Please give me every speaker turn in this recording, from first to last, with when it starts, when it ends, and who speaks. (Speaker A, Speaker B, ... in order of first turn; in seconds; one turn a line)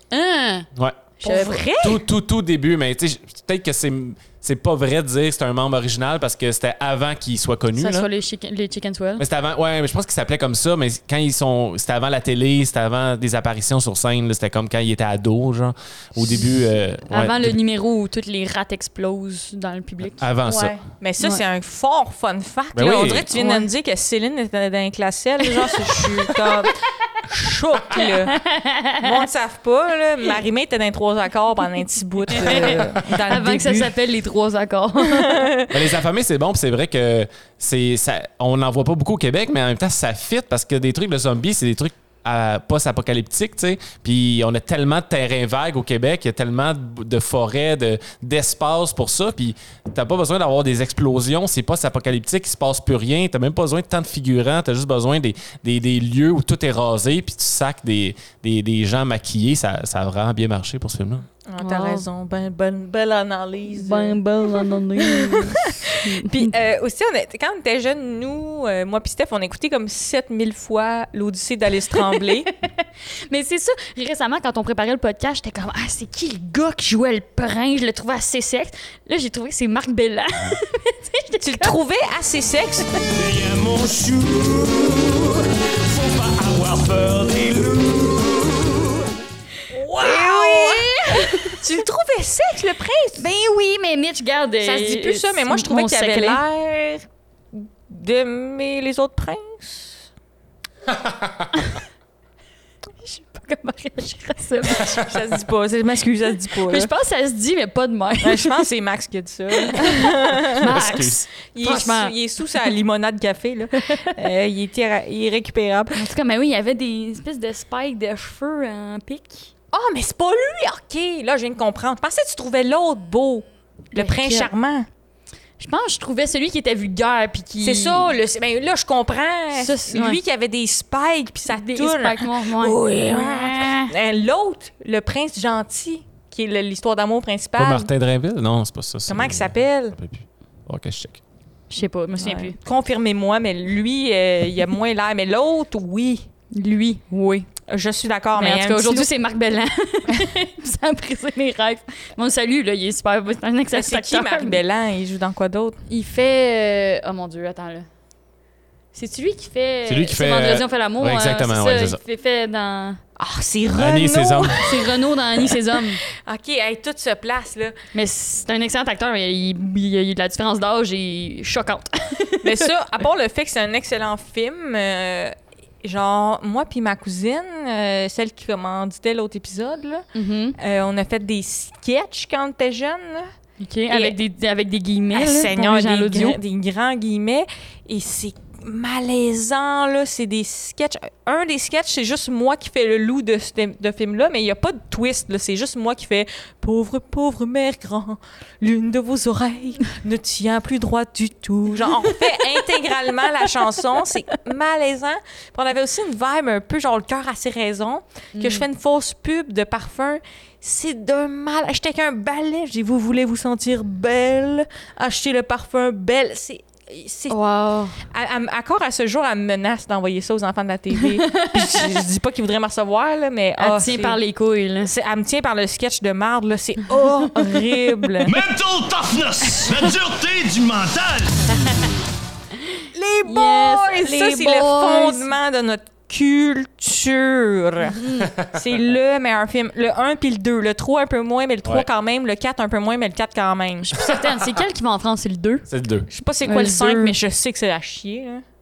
Speaker A: 0.1-0.7
Speaker B: 0.8-1.0
Speaker A: 1.2-1.7
Speaker C: 1.2-2.0
Speaker B: 1.8-8.1
Speaker A: 7.7-9.2
Speaker B: 9.2-17.6
Speaker A: 17.1-20.3
Speaker B: 20.2-20.8
Speaker C: 20.5-28.4
Speaker B: 22.7-23.3
Speaker A: 23.3-23.7
Speaker A: 25.4-26.7
Speaker A: 27.9-29.2
Speaker C: 29.0-34.0
Speaker A: 32.3-35.5
Speaker C: 35.1-35.7
Speaker B: 35.7-61.3
Speaker C: 61.5-64.2
Speaker A: 61.6-62.0
Speaker A: 63.8-66.5
Speaker C: 65.0-72.5
Speaker A: 72.6-81.8
Speaker C: 81.4-83.0
Speaker D: 83.1-89.1
Speaker C: 89.8-93.3
Speaker A: 89.9-91.6
Speaker A: 93.2-96.4
Speaker C: 94.6-100.0
Speaker A: 103.0-105.1
Speaker C: 104.9-106.9
Speaker A: 106.7-108.6
Speaker C: 108.2-116.0
Speaker A: 109.6-112.1
Speaker B: 110.6-111.2
Speaker A: 113.8-114.1
Speaker A: 116.0-119.5
Speaker C: 119.7-124.9
Speaker A: 124.0-124.5
Speaker A: 125.6-128.1
Speaker C: 127.6-137.9
Speaker A: 129.6-130.2
Speaker A: 131.5-133.9
Speaker B: 137.6-141.2
Speaker C: 139.1-140.0
Speaker A: 141.7-142.6
Speaker C: 142.2-146.3
Speaker A: 146.5-147.5
Speaker C: 147.7-149.1
Speaker A: 148.4-154.6
Speaker C: 153.7-155.8
Speaker A: 155.9-157.9
Speaker A: 158.9-163.0
Speaker B: 159.9-162.0
Speaker C: 163.2-165.6
Speaker B: 163.7-164.6
Speaker A: 164.6-166.0
Speaker C: 166.1-167.8
Speaker A: 167.9-172.7
Speaker C: 172.4-180.1
Speaker A: 180.1-180.6
Speaker C: 180.6-183.3
Speaker A: 183.6-186.4
Speaker C: 183.9-184.2
Speaker C: 185.1-217.4
Speaker A: 208.4-208.7
Speaker A: 217.3-218.0
Speaker C: 218.0-224.2
Speaker A: 221.0-221.9
Speaker A: 223.6-224.9
Speaker C: 224.8-228.4
Speaker D: 228.2-231.6
Speaker A: 232.7-235.3
Speaker C: 232.9-243.9
Speaker A: 237.9-238.3
Speaker B: 238.2-238.6
Speaker A: 243.8-245.7
Speaker B: 244.0-244.6
Speaker B: 245.7-246.1
Speaker C: 246.1-248.4
Speaker A: 246.4-247.2